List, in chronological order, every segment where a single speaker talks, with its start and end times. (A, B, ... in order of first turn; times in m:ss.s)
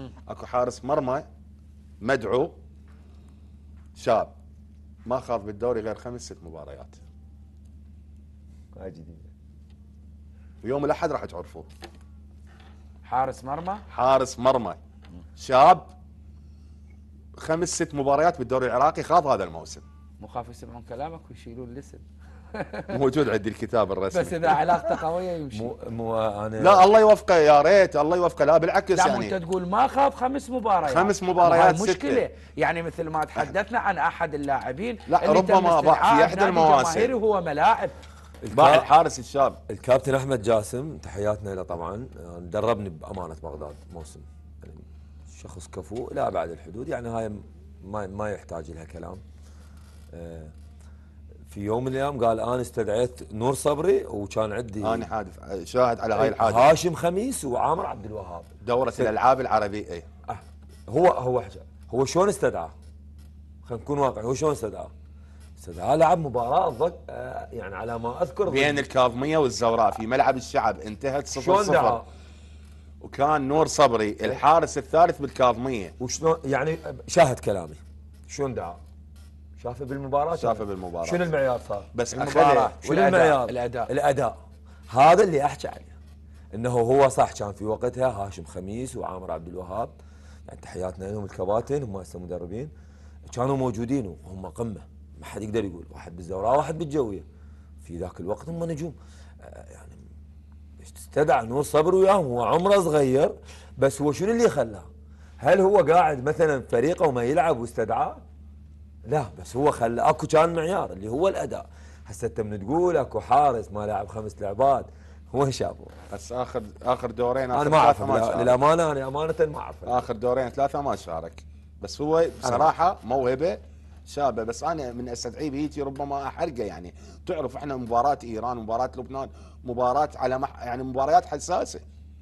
0:00.3-0:01.2 A
0:02.0-0:02.5 A
0:04.0-0:04.3 A
0:05.0-0:07.0 A
0:08.7-0:09.3 B
0:10.6-0:11.7 A
0:13.0-0:13.8 C
0:13.9-0:14.8 A
0:15.4-0:15.9 A
0:17.4-0:19.8 A
0:20.2-0:23.0 C
0:22.9-0:24.6 A
0:24.1-0:25.7 C
0:25.5-0:26.9 B
0:26.6-0:29.4 A
0:28.9-0:37.9 C
0:30.8-0:32.2 A
0:35.1-0:37.1 A
0:38.4-0:38.9 B
0:38.5-0:39.6 A
0:39.7-0:49.2 B
0:50.1-0:50.5 B
0:51.5-0:55.1 B
0:54.8-0:56.7 A
0:56.2-0:59.1 B
0:58.6-1:00.0 A
1:00.3-1:02.7 B
1:03.6-1:04.9 B
1:05.6-1:08.8 B
1:08.4-1:12.0 A
1:11.3-1:12.1 B
1:13.0-1:15.9 A
1:16.0-1:18.8 B
1:19.6-1:21.9 B
1:20.3-1:21.3 A
1:21.9-1:22.7 A
1:22.1-1:23.9 C
1:22.8-1:24.4 B
1:24.9-1:25.9 B
1:26.5-1:29.9 B
1:30.4-1:32.7 B
1:33.3-1:37.2 B
1:37.8-1:40.0 B
1:40.8-1:44.9 B
1:45.4-1:48.2 B
1:49.1-1:55.9 B
1:56.1-1:58.6 A
1:57.5-2:00.0 B
1:59.8-2:11.8 A
2:02.4-2:02.7 B